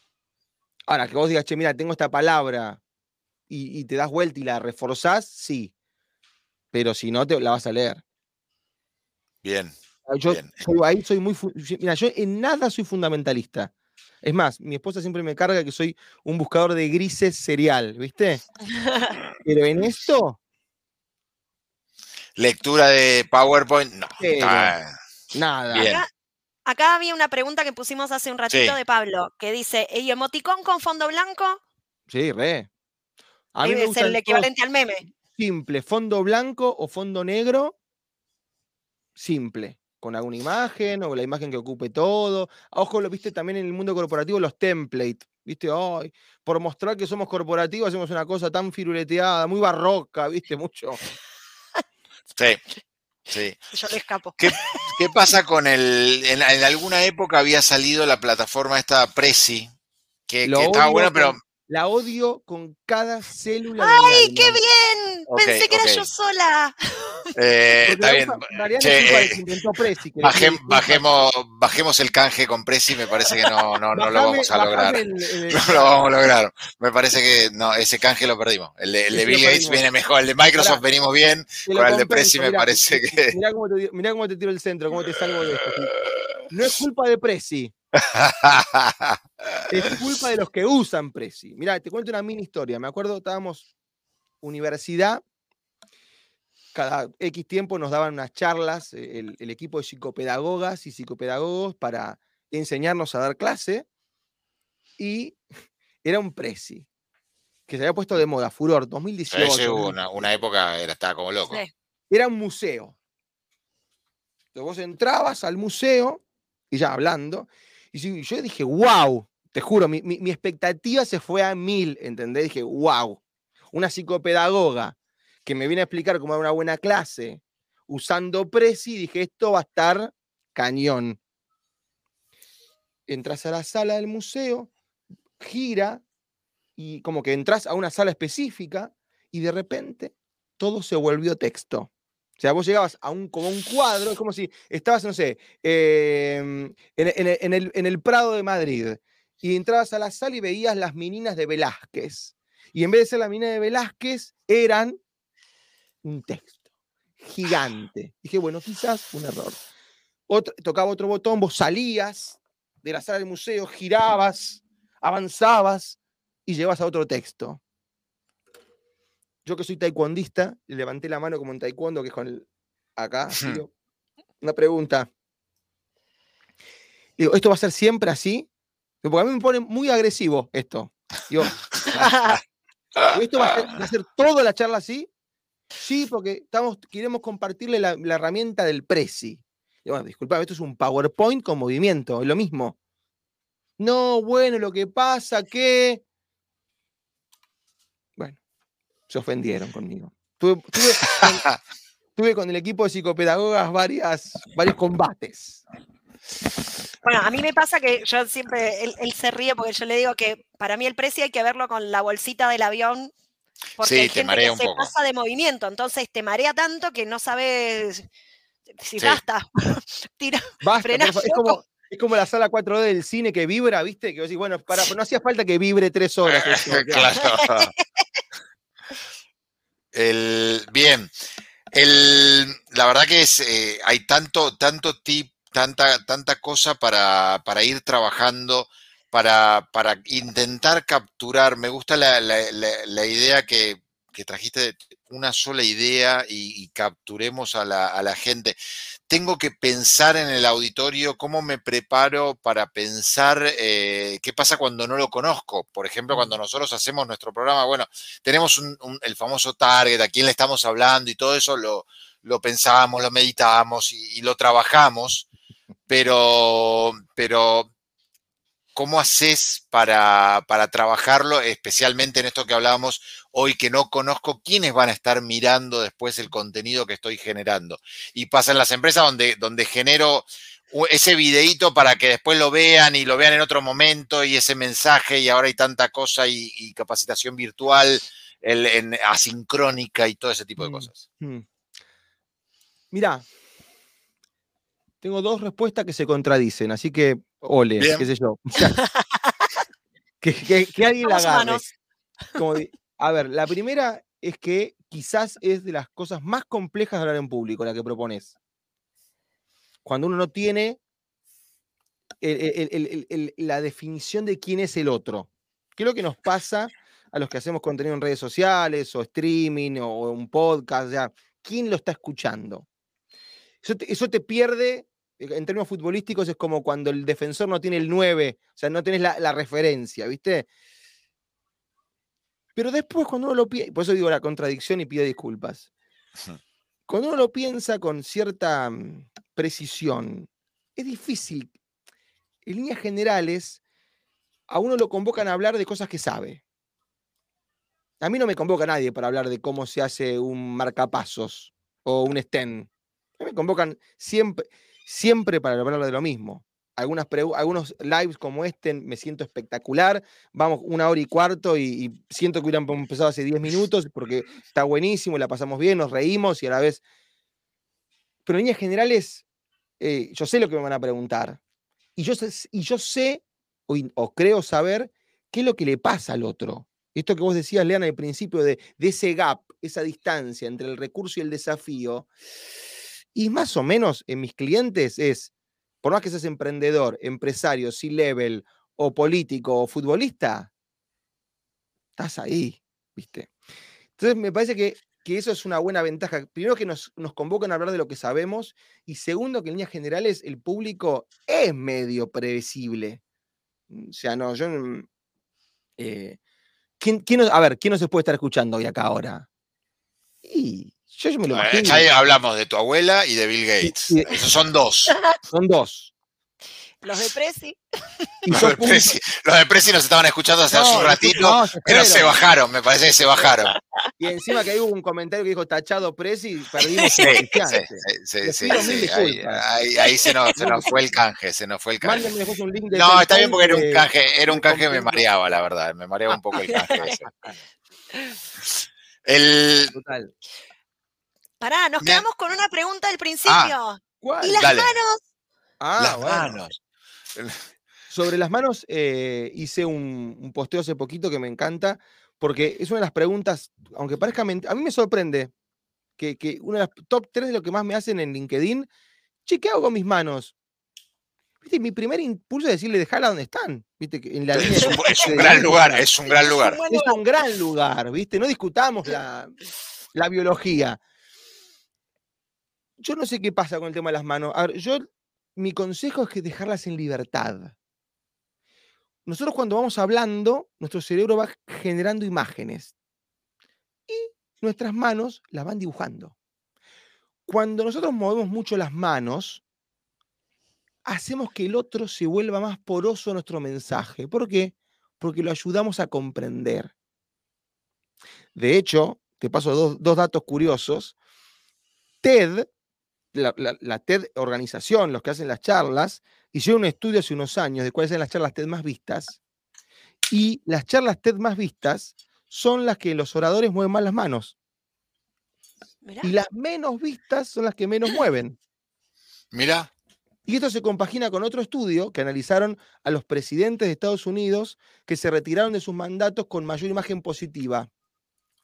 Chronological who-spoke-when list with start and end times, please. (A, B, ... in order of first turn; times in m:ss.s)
0:00.9-0:02.8 A
0:03.5-0:05.7 A
0:06.7-0:08.0 A
0:09.4-0:10.7 B
0:10.1-0:18.4 A
0:18.7-0:19.2 C
0:19.4-0:20.4 A
0:22.4-0:24.9 B
0:24.2-0:24.8 A
0:25.3-0:26.0 A
0:25.7-0:26.0 B
0:25.8-0:26.1 C
0:26.7-0:31.6 C
0:28.5-0:28.8 B
0:32.1-0:32.7 A
0:33.6-0:34.5 A
0:33.6-0:35.0 C
0:35.3-0:37.8 A
0:39.2-0:51.0 A
0:52.4-0:52.6 B
0:53.3-0:53.6 B
0:53.7-0:55.0 C
0:54.4-0:59.7 B
1:00.3-1:01.4 B
1:00.4-1:04.6 A
1:03.8-1:07.3 C
1:05.3-1:06.1 B
1:07.4-1:09.4 B
1:07.9-1:11.2 A
1:10.2-1:15.0 B
1:13.9-1:16.0 A
1:15.6-1:23.4 B
1:19.1-1:19.8 A
1:20.6-1:20.8 A
1:21.7-1:25.9 A
1:26.5-1:27.7 A
1:28.0-1:29.2 B
1:29.7-1:33.7 A
1:34.4-1:35.2 A
1:36.7-1:43.9 A
1:45.0-1:45.4 A
1:46.0-1:46.9 A
1:47.7-1:50.2 A
1:49.3-1:51.6 B
1:52.1-1:53.0 A
1:54.6-2:11.2 A
2:13.1-2:14.7 A
2:15.4-2:16.0 A
2:16.8-2:35.0 A
2:36.0-2:36.6 A
2:37.2-2:39.6 A
2:40.3-2:47.6 A
2:49.4-2:53.7 A
2:54.4-2:55.1 A
2:57.2-2:58.5 A
2:59.0-3:02.1 A
3:02.0-3:02.4 C
3:03.1-3:05.1 A
3:05.8-3:12.8 A
3:13.8-3:16.0 A
3:19.1-3:21.5 A
3:21.1-3:21.6 B
3:22.2-3:25.6 A
3:27.0-3:33.1 C
3:33.8-3:38.1 C
3:33.8-3:34.9 B
3:38.8-3:41.6 C
3:40.6-3:47.1 A
3:46.3-3:47.7 B
3:47.2-3:48.0 C
3:49.9-3:51.1 B
3:51.7-4:08.6 B
4:09.1-4:25.3 B
4:16.1-4:16.4 A
4:25.9-4:27.7 B
4:28.8-4:51.0 B
4:50.6-4:51.4 A
4:52.9-4:53.3 A
4:55.0-4:58.8 A
4:57.8-4:58.1 B
4:58.7-4:59.3 C
5:00.2-5:01.7 A
5:01.0-5:01.6 C
5:02.4-5:08.3 A
5:09.8-5:10.8 A
5:12.2-5:22.7 A
5:23.6-5:30.5 A
5:32.6-5:35.7 A
5:36.9-5:41.6 A
5:42.4-5:43.6 A
5:44.5-5:46.4 A
5:48.0-6:06.8 A
6:08.2-6:09.2 A
6:09.8-6:11.4 A
6:12.0-6:22.1 A
6:23.2-6:25.3 A
6:25.8-6:30.5 A
6:32.0-6:33.3 A
6:34.0-6:43.0 A
6:43.7-6:44.9 A
6:45.8-6:46.2 A
6:46.8-6:49.3 A
6:50.2-6:51.9 A
6:51.3-6:55.0 B
6:53.6-6:54.2 A
6:55.3-6:55.9 A
6:56.8-6:58.1 C
6:58.3-6:58.9 A
6:58.3-7:03.6 B
7:00.5-7:02.2 A
7:04.0-7:09.4 A
7:06.6-7:07.3 C
7:07.0-7:12.1 B
7:09.8-7:10.4 C
7:10.4-7:10.7 A
7:11.8-7:15.0 A
7:12.7-7:17.1 B
7:16.7-7:17.0 C
7:16.8-7:17.3 A
7:19.0-7:19.8 B
7:19.7-7:20.1 A
7:21.4-7:25.0 C
7:23.2-7:23.6 B
7:24.0-7:24.5 A
7:24.4-7:24.8 B
7:25.6-7:26.4 A
7:25.8-7:26.6 B
7:27.2-7:27.4 B
7:27.9-7:35.3 A
7:36.0-7:38.7 A
7:39.3-7:40.4 A
7:41.4-7:49.3 A
7:44.3-7:46.6 B
7:44.6-7:45.2 C
7:46.3-7:47.0 C
7:49.9-7:50.8 A
7:52.8-7:57.6 A
7:59.1-8:02.7 A
8:03.9-8:06.2 A
8:07.3-8:09.4 A
8:10.8-8:16.7 A
8:18.4-8:21.0 A
8:22.0-8:22.5 A
8:23.1-8:29.2 A
8:30.1-8:34.4 A
8:35.8-8:36.1 C
8:36.0-8:38.4 A
8:39.3-8:39.7 B
8:40.3-8:47.7 A